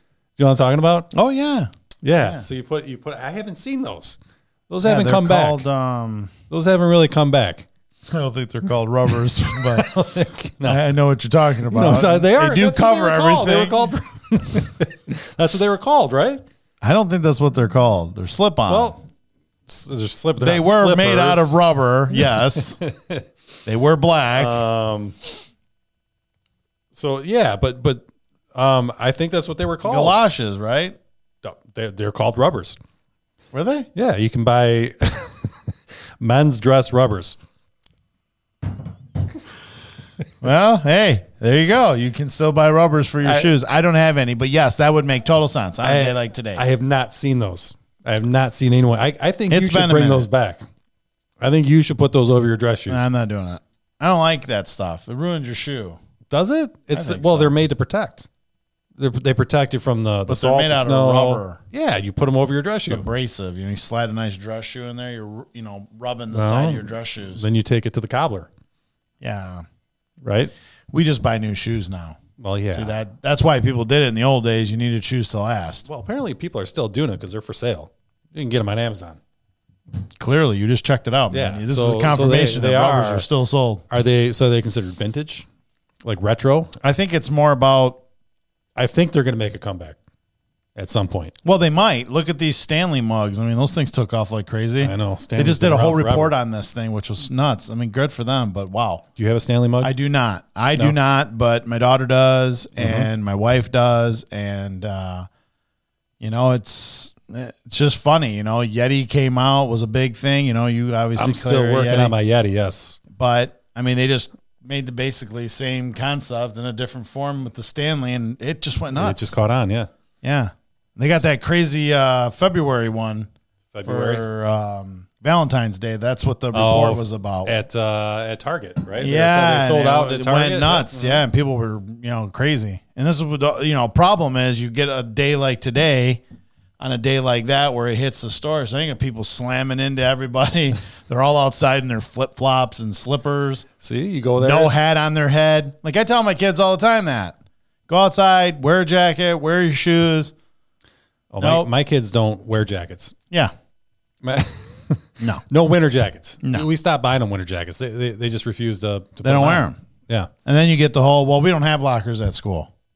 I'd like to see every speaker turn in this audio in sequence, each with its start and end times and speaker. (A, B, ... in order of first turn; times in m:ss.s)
0:00.4-0:01.1 A
0:01.1-0:02.5 B
0:02.0-0:04.2 A
0:04.7-0:05.6 A
0:04.8-0:06.3 B
0:06.5-0:07.7 A
0:08.1-0:09.9 B
0:09.4-0:10.8 A
0:10.6-0:13.9 B
0:11.7-0:16.4 A
0:16.8-0:19.0 B
0:18.7-0:19.0 A
0:19.7-0:21.6 A
0:20.4-0:22.8 B
0:22.2-0:23.3 A
0:23.7-0:24.6 B
0:24.4-0:25.2 A
0:26.9-0:30.2 A
0:29.8-0:31.0 B
0:31.4-0:32.8 A
0:33.5-0:33.9 B
0:34.0-0:37.4 A
0:40.4-0:46.6 B
0:43.2-0:43.5 A
0:45.8-0:50.7 A
0:49.5-0:50.3 B
0:51.4-0:53.1 A
0:52.9-0:56.0 B
0:56.3-0:58.3 A
0:56.9-0:57.6 B
0:59.0-1:03.0 A
1:00.3-1:01.6 B
1:02.9-1:07.5 B
1:06.3-1:08.5 A
1:09.2-1:09.6 B
1:10.2-1:10.5 A
1:10.9-1:12.2 B
1:12.4-1:13.0 A
1:12.7-1:15.8 B
1:15.9-1:19.2 A
1:20.2-1:23.9 B
1:21.3-1:23.3 A
1:23.9-1:25.4 A
1:26.0-1:26.7 A
1:26.8-1:28.0 B
1:28.8-1:30.0 A
1:30.8-1:31.4 A
1:31.4-1:39.0 B
1:34.8-1:36.4 A
1:39.2-1:39.9 A
1:39.8-1:45.3 B
1:42.8-1:43.1 A
1:46.2-1:52.2 B
1:51.2-1:53.0 A
1:53.1-1:59.3 B
1:59.0-1:59.9 A
2:00.2-2:03.3 B
2:03.7-2:04.2 A
2:03.8-2:07.6 B
2:06.5-2:11.2 A
2:09.0-2:16.2 B
2:16.8-2:23.7 B
2:23.8-2:24.7 A
2:24.4-2:27.4 B
2:27.9-2:30.3 B
2:31.3-2:33.2 A
2:31.4-2:31.7 B
2:34.2-2:40.3 A
2:39.2-2:39.8 B
2:40.4-2:42.7 B